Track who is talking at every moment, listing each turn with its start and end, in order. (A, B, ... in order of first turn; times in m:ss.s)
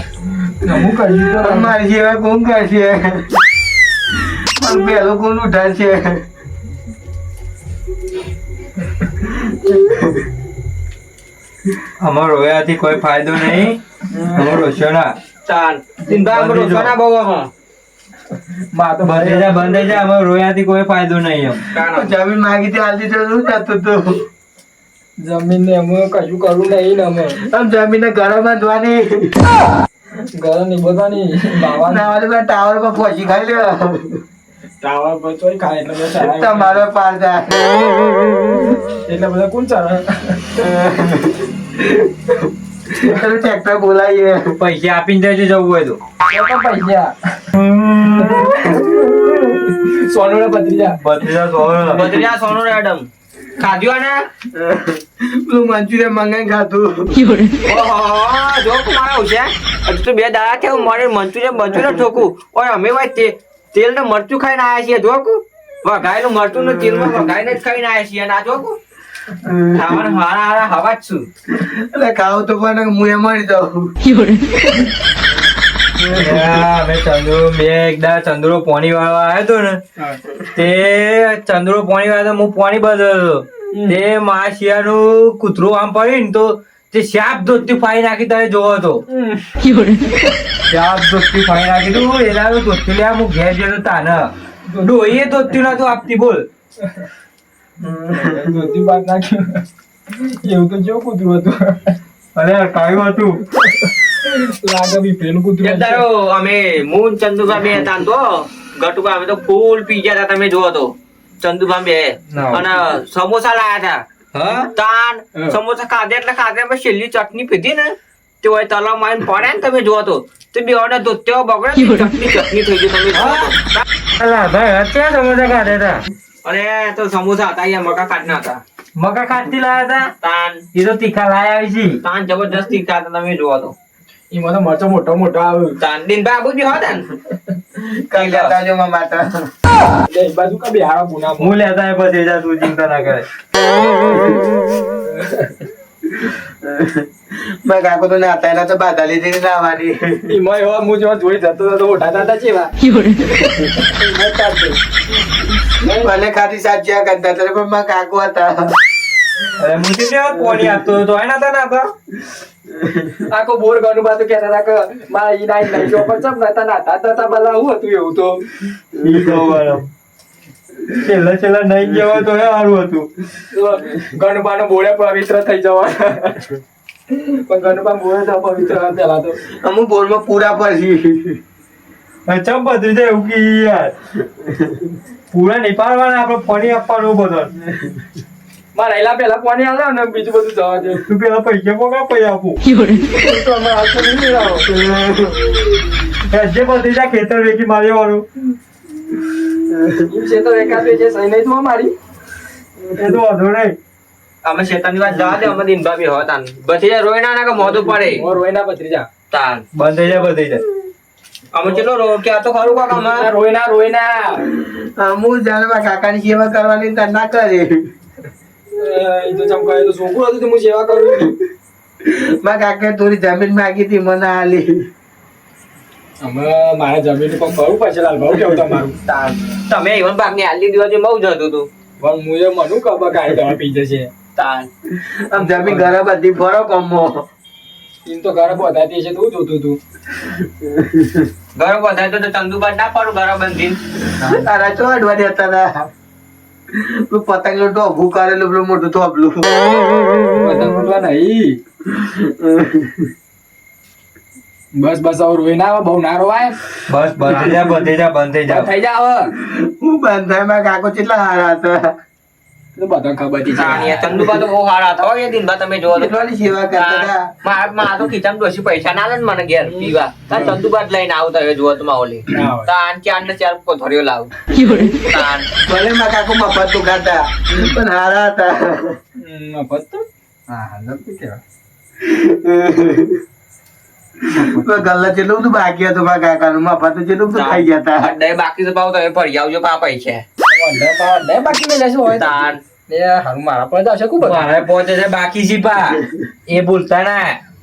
0:00.4-0:01.7 A
0:01.3-0:03.4 B
0:04.4-0:06.2 B
0:09.3-0:10.2 B
0:12.0-0:15.1 C
0:14.1-0:14.4 B
0:15.4-0:17.5 D
0:16.0-0:16.9 C
0:18.7-0:19.8 A
0:19.0-0:21.7 C
0:21.7-0:22.1 D
0:21.8-0:24.2 B
0:25.2-0:27.4 A
0:27.4-0:29.4 B
0:30.3-0:32.1 A
0:31.7-0:34.2 B
0:34.8-0:36.8 A
0:36.1-0:38.0 B
0:39.0-0:40.4 A
0:40.6-0:42.4 B
0:42.9-0:44.5 B
0:44.6-0:46.0 C
0:46.3-0:47.4 A
0:47.5-0:48.5 C
0:48.3-0:49.2 B
0:48.8-0:51.0 A
0:51.0-0:52.1 C
0:51.8-0:54.2 D
0:54.5-0:57.3 B
0:57.6-1:08.8 D
1:06.6-1:07.3 B
1:09.4-1:10.2 B
1:09.7-1:11.3 D
1:11.5-1:13.9 B
1:16.0-1:16.5 B
1:16.1-1:19.8 C
1:20.5-1:29.0 C
1:23.7-1:24.0 A
1:29.1-1:29.7 A
1:30.7-1:36.4 C
1:34.7-1:34.9 A
1:37.8-1:38.7 B
1:38.1-1:42.0 A
1:42.3-1:43.4 C
1:43.7-1:46.0 A
1:45.6-1:54.0 D
1:52.3-1:52.7 C
1:54.3-1:54.7 C
1:54.7-2:03.8 D
2:03.1-2:03.5 C
2:04.2-2:06.0 C
2:06.4-2:08.6 D
2:09.0-2:10.1 C
2:10.2-2:10.6 D
2:10.7-2:12.0 C
2:12.0-2:13.7 D
2:14.3-2:15.8 A
2:15.8-2:17.1 D
2:17.8-2:19.5 B
2:18.1-2:18.6 D
2:20.1-2:21.6 A
2:21.4-2:23.2 C
2:24.0-2:24.4 B
2:25.0-2:25.6 A
2:26.2-2:30.3 B
2:30.3-2:32.7 A
2:33.6-2:34.8 A
2:35.8-2:36.1 A
2:35.9-2:38.7 B
2:39.5-2:41.9 C
2:43.3-2:48.4 A
2:49.0-2:49.9 C
2:50.9-2:53.1 C
2:53.5-2:56.5 A
2:57.1-2:59.4 A
2:59.5-3:01.4 B
3:02.3-3:03.9 C
3:05.3-3:07.5 C
3:08.7-3:11.1 A
3:11.1-3:12.6 C
3:12.9-3:14.7 A
3:14.7-3:15.8 B
3:16.1-3:18.3 C
3:19.6-3:20.0 B
3:20.1-3:21.9 A
3:23.0-3:23.8 C
3:24.4-3:28.2 D
3:27.7-3:29.1 A
3:29.3-3:29.6 D
3:29.7-3:30.6 C
3:31.5-3:33.2 D
3:33.0-3:34.5 A
3:34.5-3:37.8 B
3:38.7-3:41.3 A
3:42.0-3:44.9 B
3:46.2-3:49.0 A
3:49.0-3:51.7 D
3:52.0-3:54.1 A
3:54.4-3:54.7 D
3:54.9-3:57.2 B
3:55.4-3:55.9 A
3:58.0-3:59.8 A
4:00.6-4:01.3 B
4:01.5-4:03.8 D
4:04.2-4:05.9 B
4:06.7-4:09.8 B
4:10.3-4:11.6 A
4:11.9-4:13.1 B
4:14.7-4:16.5 A
4:16.9-4:18.7 C
4:18.5-4:19.3 A
4:19.4-4:21.9 B
4:22.8-4:24.2 A
4:23.5-4:26.2 D
4:25.9-4:27.2 B
4:26.7-4:34.4 D
4:29.6-4:29.9 A
4:32.3-4:32.7 A
4:35.0-4:35.5 D
4:35.6-4:39.0 B
4:39.2-4:41.4 A
4:42.0-4:43.2 B
4:44.3-4:44.9 A
4:44.5-4:48.1 B
4:47.3-4:50.2 D
4:50.5-4:52.3 A
4:52.1-4:52.6 D
4:52.9-4:54.4 A
4:54.2-4:57.4 C